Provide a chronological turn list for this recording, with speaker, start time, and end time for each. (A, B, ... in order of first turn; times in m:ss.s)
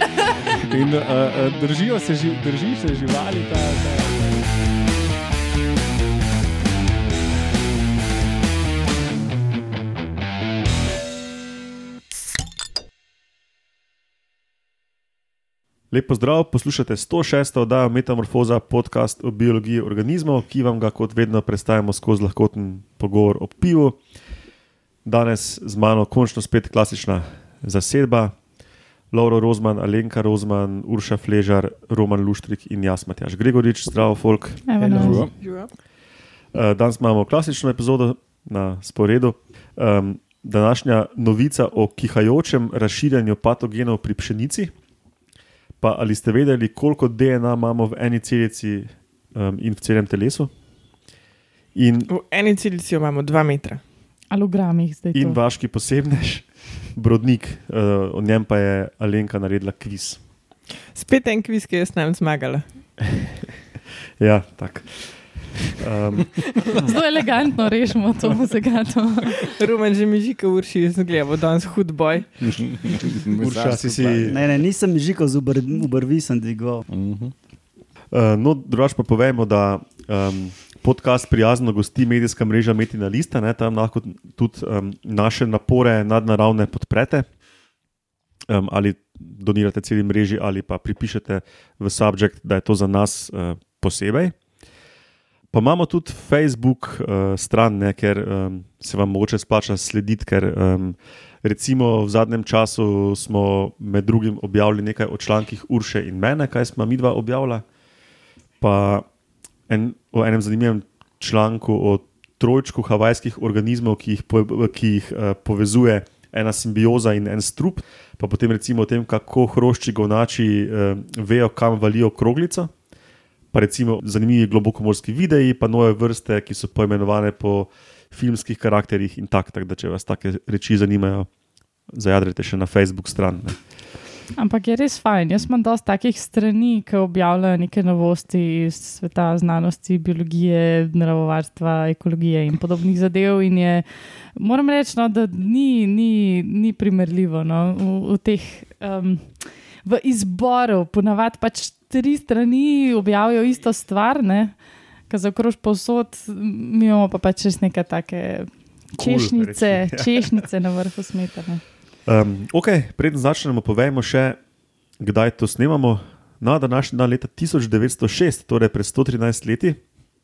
0:00.6-0:04.4 A
0:15.9-0:24.0 B
0:25.0-0:28.4 B
0:29.1-0:34.6 B
0:34.7-0:35.3 C
0:34.8-0:35.3 D
0:35.0-0:35.3 A
0:35.4-0:35.7 E
0:36.5-0:44.7 B
0:45.8-0:50.5 B
0:51.8-0:52.1 B
0:52.1-0:53.8 E
0:54.3-0:55.4 C
0:55.2-0:56.4 B
0:57.0-1:00.2 B
1:01.0-1:02.6 E
1:03.0-1:03.3 B
1:04.2-1:05.1 B
1:05.6-1:06.9 B
1:06.7-1:09.4 C
1:09.3-1:12.3 E
1:12.5-1:14.4 A
1:13.0-1:14.4 B
1:14.2-1:16.9 D
1:16.9-1:17.3 A
1:18.1-1:27.3 B
1:28.5-1:34.4 B
1:35.5-1:47.6 B
1:48.6-1:49.1 B
1:49.7-2:02.7 B
2:03.5-2:11.3 B
2:11.9-2:13.6 B
2:14.4-2:23.8 C
2:24.4-2:34.6 C
2:35.1-2:41.6 C
2:39.0-2:40.4 B
2:42.1-2:44.4 B
2:45.0-2:49.8 B